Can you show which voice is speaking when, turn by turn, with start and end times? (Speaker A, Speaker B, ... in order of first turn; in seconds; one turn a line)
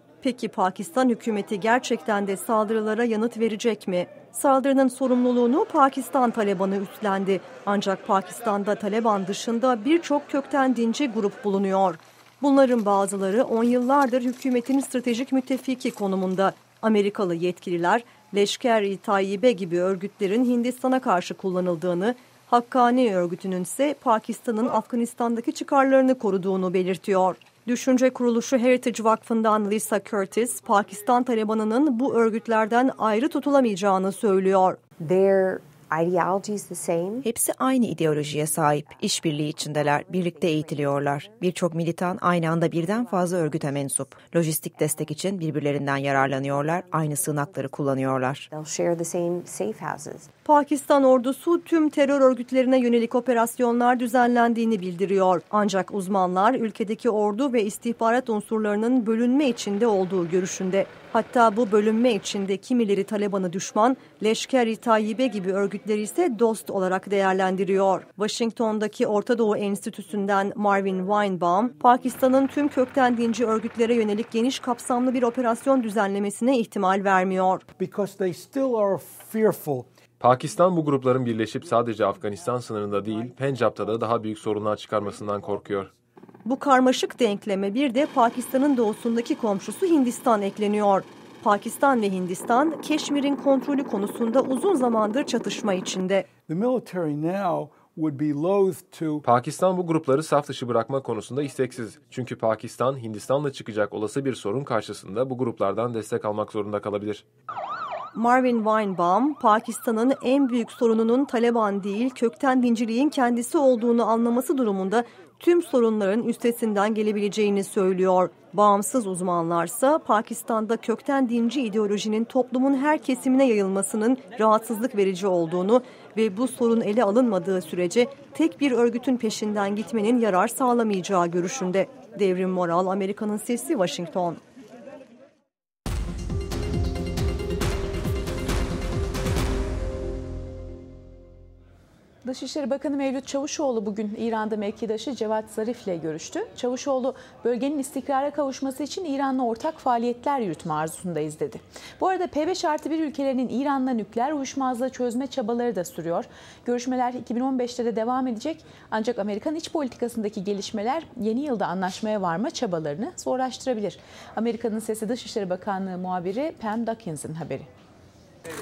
Speaker A: 0.2-34.8
Speaker B: 35.0-37.2
Speaker C: 37.2-48.5
Speaker B: 48.5-50.2
Speaker A: 50.4-77.6
Speaker D: 77.8-79.9
Speaker E: 80.2-85.9
Speaker A: 86.4-96.3
Speaker D: 96.5-99.2
Speaker E: 99.3-107.2
Speaker A: 108.1-134.4
Speaker F: 142.2-167.7